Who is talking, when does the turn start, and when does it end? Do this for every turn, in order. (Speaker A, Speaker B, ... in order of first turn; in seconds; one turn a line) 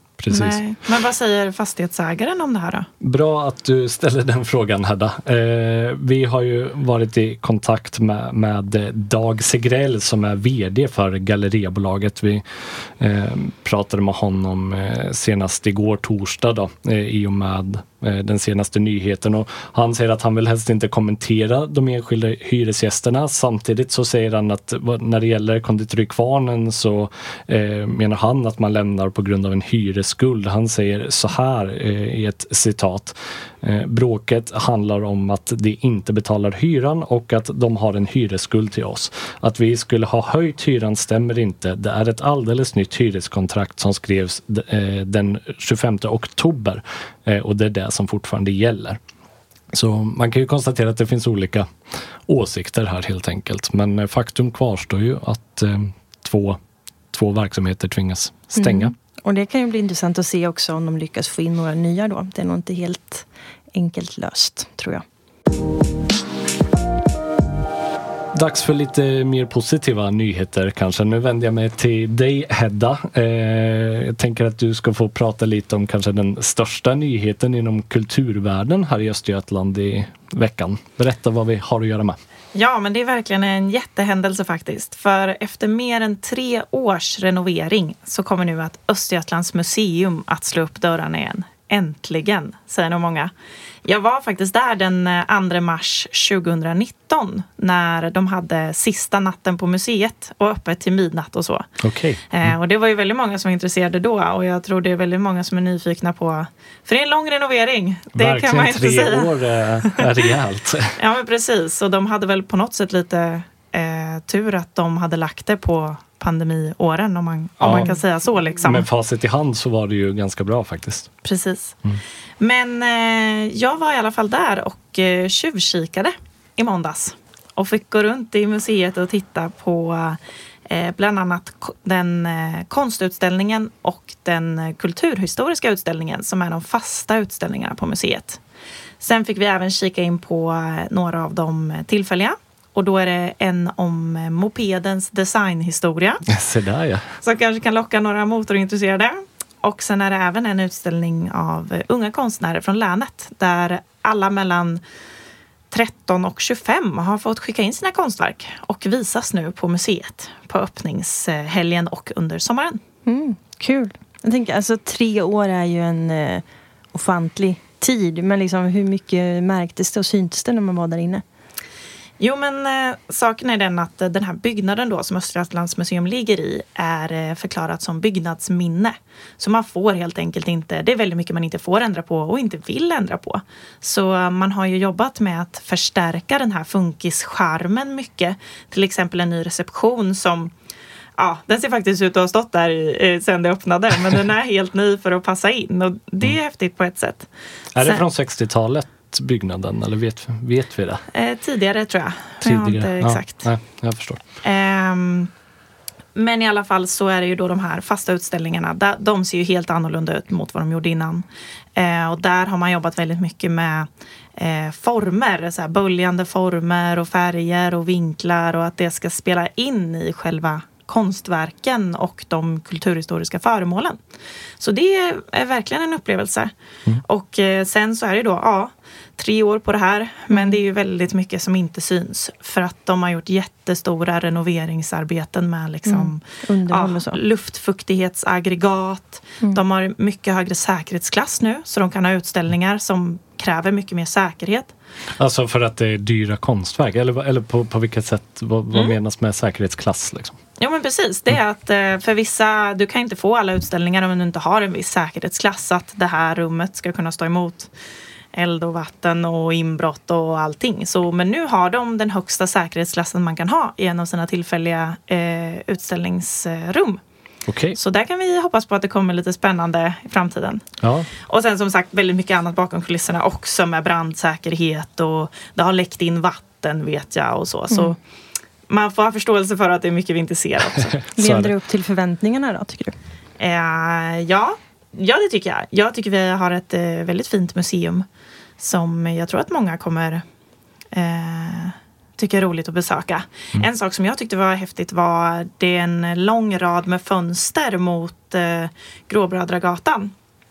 Speaker A: 0.2-0.6
Speaker B: 0.3-2.9
Speaker A: 3.0-49.0
Speaker A: 49.7-51.7
Speaker A: 52.2-56.6
Speaker A: 57.1-58.9
Speaker C: 58.6-65.0
Speaker A: 68.3-82.2
Speaker B: 82.5-93.3
Speaker B: 93.8-101.7
Speaker A: 101.8-102.5
Speaker B: 102.3-110.1
Speaker A: 108.1-111.0
Speaker B: 111.0-118.9
Speaker A: 117.6-117.9
Speaker A: 118.6-121.1
Speaker B: 121.2-121.8
Speaker B: 122.4-138.4
Speaker B: 139.0-146.2
Speaker A: 146.2-147.2
Speaker B: 147.2-154.8
Speaker B: 155.7-162.8
Speaker C: 163.1-171.2
Speaker B: 172.2-190.5
Speaker B: 191.2-197.3
Speaker A: 197.7-201.0
Speaker B: 201.1-203.4
Speaker A: 202.4-204.2
Speaker B: 204.4-205.3
Speaker B: 206.1-224.0
Speaker B: 224.6-226.5
Speaker B: 227.0-244.7
Speaker C: 230.3-230.6
Speaker C: 235.8-237.2
Speaker A: 245.1-250.4
Speaker B: 250.6-257.7
Speaker B: 258.3-267.0
Speaker A: 267.5-267.8
Speaker B: 267.8-270.6
Speaker A: 270.8-271.1
Speaker B: 271.3-278.0
Speaker C: 277.7-277.9
Speaker B: 278.7-281.0
Speaker A: 281.1-281.5
Speaker C: 281.2-282.9
Speaker B: 283.4-288.1
Speaker B: 288.6-290.2
Speaker B: 290.9-300.1